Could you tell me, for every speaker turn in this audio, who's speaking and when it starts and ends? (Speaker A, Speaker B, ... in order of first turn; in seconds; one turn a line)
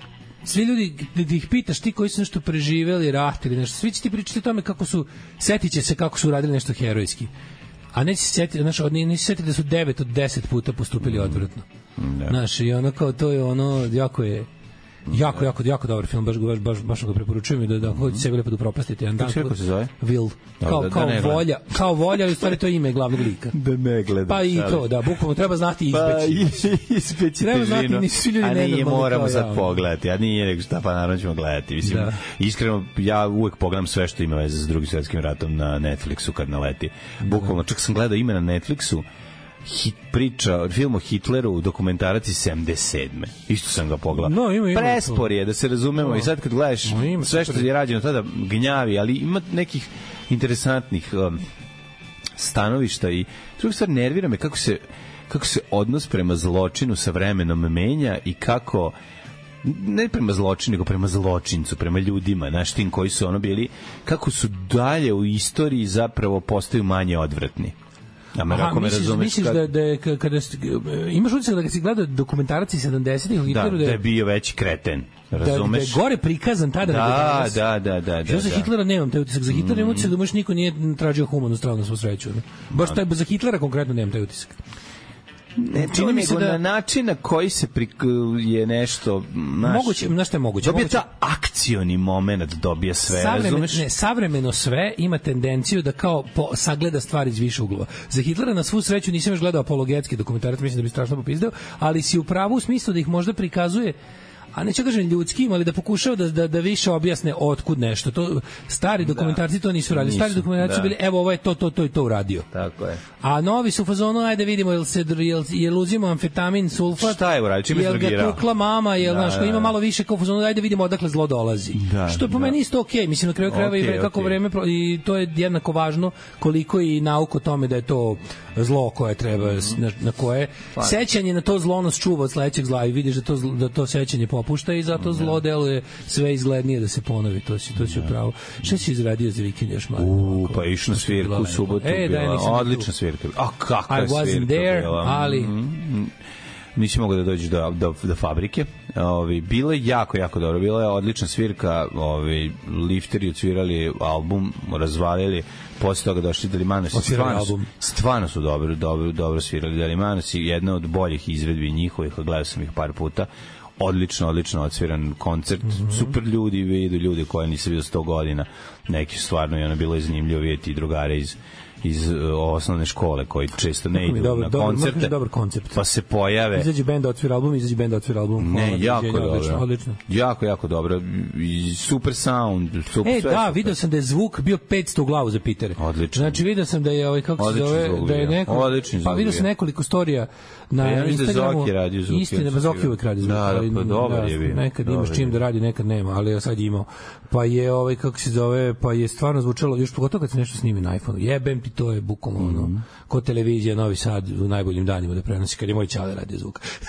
Speaker A: 0.4-7.3
Speaker A: 7.9-11.7
Speaker B: 11.0-11.4
Speaker B: 12.0-12.4
Speaker A: 12.3-14.5
Speaker A: 15.1-23.6
Speaker B: 15.1-15.4
Speaker B: 17.8-18.2
Speaker B: 19.2-19.9
Speaker B: 20.6-22.4
Speaker B: 23.5-25.0
Speaker A: 24.3-26.6
Speaker B: 25.9-39.0
Speaker A: 27.4-29.8
Speaker A: 31.8-32.2
Speaker A: 37.2-37.5
Speaker B: 39.6-51.4
Speaker A: 44.1-45.3
Speaker A: 46.0-46.3
Speaker A: 46.8-47.7
Speaker B: 52.4-59.0
Speaker B: 59.6-67.8
Speaker B: 68.3-69.7
Speaker A: 68.5-74.0
Speaker B: 73.4-76.0
Speaker A: 75.3-77.7
Speaker B: 76.8-78.7
Speaker A: 78.2-84.6
Speaker B: 79.5-80.1
Speaker B: 82.7-83.0
Speaker B: 85.6-90.1
Speaker A: 85.7-86.6
Speaker A: 89.6-91.0
Speaker B: 90.6-93.8
Speaker A: 93.0-104.0
Speaker A: 104.5-112.5
Speaker B: 109.0-110.9
Speaker B: 112.5-113.0
Speaker A: 113.2-142.9
Speaker B: 116.9-118.4
Speaker B: 119.0-119.7
Speaker B: 121.7-122.5
Speaker B: 123.5-124.4
Speaker B: 135.0-135.4
Speaker B: 137.8-138.1
Speaker B: 140.0-146.1
Speaker A: 143.9-145.5
Speaker B: 146.7-175.1
Speaker A: 156.9-157.7
Speaker A: 165.7-166.1
Speaker A: 173.9-175.8
Speaker B: 175.7-176.7
Speaker A: 176.5-180.0
Speaker B: 178.4-183.8
Speaker A: 183.0-206.6
Speaker B: 185.8-186.4
Speaker B: 187.4-189.5
Speaker B: 190.8-195.4
Speaker B: 202.4-202.8